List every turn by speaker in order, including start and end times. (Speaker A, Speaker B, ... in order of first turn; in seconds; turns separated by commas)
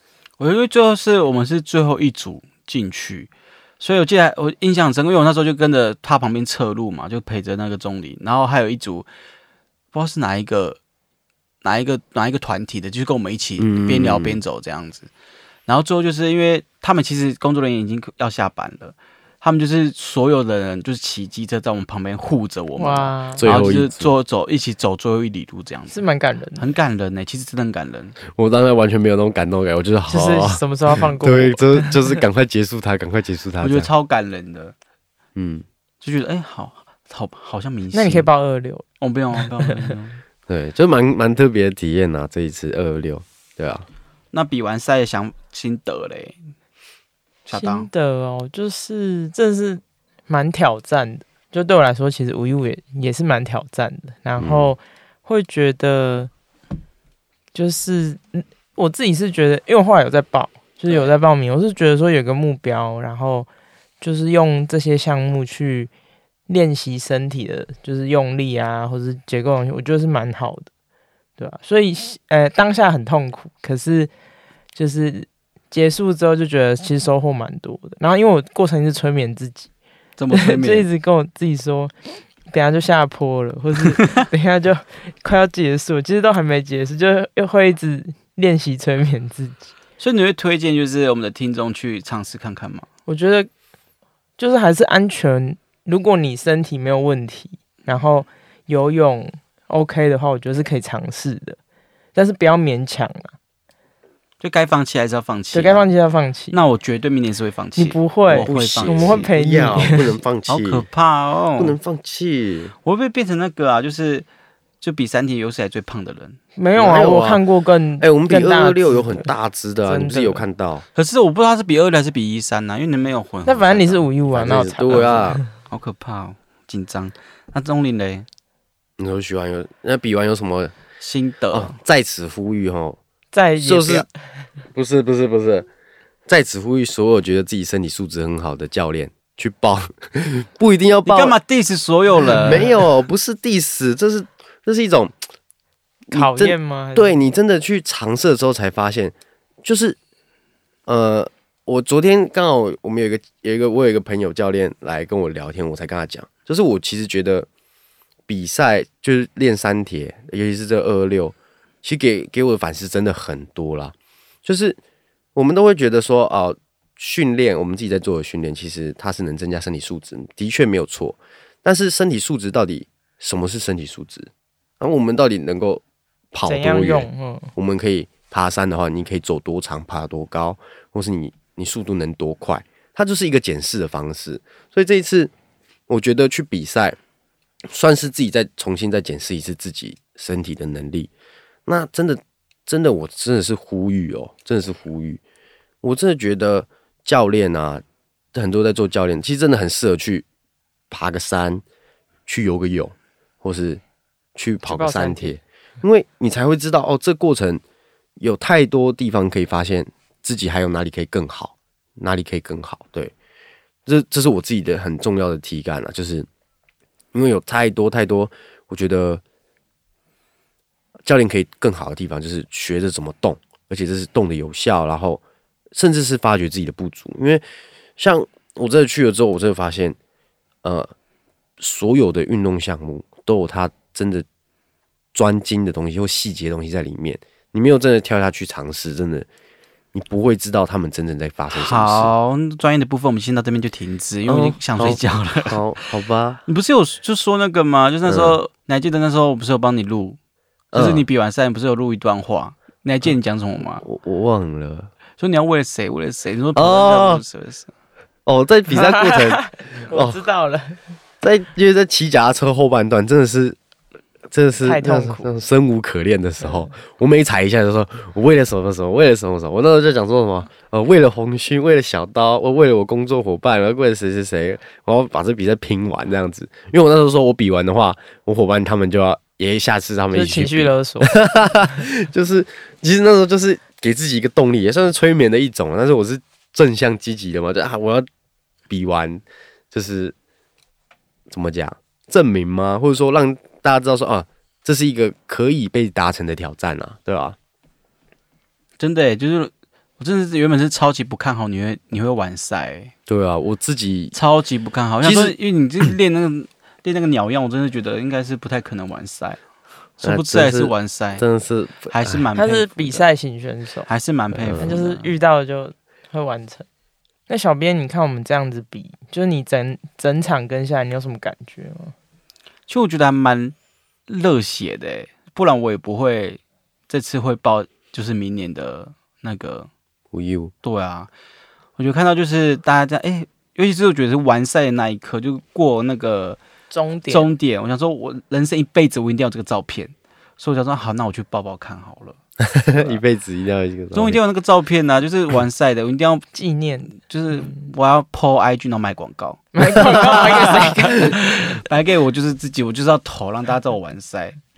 Speaker A: 0.4-9.1, Speaker A: 9.9-10.8, Speaker A: 11.6-15.1, Speaker B: 13.6-14.4, Speaker A: 15.7-26.0, Speaker C: 22.8-23.5, Speaker B: 23.4-24.1, Speaker C: 25.9-26.7, Speaker A: 26.6-28.2, Speaker B: 28.3-33.9, Speaker C: 30.1-32.2, Speaker A: 33.6-34.7, Speaker B: 35.4-35.6, Speaker A: 36.0-38.3, Speaker C: 37.9-38.8, Speaker A: 39.0-40.2, Speaker C: 39.6-39.9, Speaker B: 40.5-43.9, Speaker A: 44.3-46.4, Speaker A: 47.5-47.9, Speaker C: 47.5-56.3, Speaker B: 54.4-54.7, Speaker C: 57.5-63.5, Speaker C: 64.0-65.9, Speaker C: 66.5-70.7, Speaker C: 71.4-74.1, Speaker C: 74.8-79.7, Speaker A: 80.2-80.9, Speaker C: 80.3-89.7, Speaker A: 90.0-92.9, Speaker C: 93.1-93.5, Speaker C: 94.4-101.6, Speaker C: 102.2-103.3, Speaker A: 104.4-105.9, Speaker C: 105.5-106.6, Speaker A: 106.5-109.9, Speaker C: 107.8-110.2, Speaker B: 108.4-110.9, Speaker A: 110.5-111.8, Speaker B: 111.6-112.7, Speaker A: 112.8-114.3, Speaker A: 114.8-116.4, Speaker C: 116.6-119.3, Speaker B: 116.8-117.4, Speaker B: 118.0-120.8, Speaker C: 119.8-120.5, Speaker A: 121.0-128.3, Speaker C: 123.5-125.5, Speaker B: 124.3-125.4, Speaker B: 129.0-130.8, Speaker A: 131.0-131.8, Speaker B: 131.5-133.0, Speaker C: 133.3-134.1, Speaker B: 133.6-134.1, Speaker B: 134.7-135.7, Speaker B: 136.3-141.4, Speaker A: 141.1-142.7, Speaker B: 142.3-145.2, Speaker B: 146.1-150.0, Speaker C: 146.1-147.2, Speaker B: 150.9-157.5, Speaker B: 158.3-163.9, Speaker B: 164.4-164.8, Speaker B: 165.3-185.3, Speaker C: 176.4-177.5, Speaker B: 185.9-187.0, Speaker B: 187.7-191.1, Speaker B: 191.7-195.2, Speaker B: 195.8-197.8, Speaker B: 198.3-200.3, Speaker B: 200.9-201.6, Speaker B: 202.3-203.8, Speaker B: 204.3-207.6, Speaker C: 204.7-205.4, Speaker B: 208.2-213.1, Speaker B: 213.9-216.3, Speaker B: 217.1-219.2, Speaker B: 221.1-225.2, Speaker B: 225.7-227.4, Speaker B: 228.0-230.0, Speaker B: 230.6-230.9, Speaker B: 231.6-234.3, Speaker B: 235.1-239.3, Speaker B: 239.9-242.1, Speaker A: 241.5-245.6, Speaker B: 244.3-246.4, Speaker A: 246.5-250.2, Speaker B: 248.1-248.4, Speaker B: 250.7-251.1, Speaker A: 250.7-253.8, Speaker B: 253.8-254.9, Speaker A: 255.2-257.7, Speaker B: 256.6-257.2, Speaker B: 258.3-260.2, Speaker C: 258.7-260.8, Speaker B: 261.2-263.6, Speaker B: 264.3-288.1, Speaker C: 264.6-265.3, Speaker C: 280.1-281.7, Speaker B: 288.7-290.1, Speaker B: 291.3-297.4, Speaker A: 298.8-302.9, Speaker B: 303.1-304.1, Speaker A: 304.1-309.4, Speaker B: 305.0-305.4, Speaker A: 310.0-311.2, Speaker B: 310.0-312.2, Speaker A: 311.9-313.0, Speaker C: 312.4-313.9, Speaker A: 313.9-315.1, Speaker B: 314.3-314.7, Speaker C: 314.6-316.6, Speaker C: 317.3-321.9, Speaker A: 322.7-323.6, Speaker A: 324.1-329.7, Speaker B: 330.1-330.5, Speaker A: 330.6-331.1, Speaker A: 331.8-336.4, Speaker C: 336.7-337.3, Speaker A: 337.1-342.2, Speaker B: 342.4-344.2, Speaker A: 343.9-346.3, Speaker C: 346.3-347.6, Speaker A: 347.0-354.4, Speaker C: 349.6-351.6, Speaker B: 349.8-350.3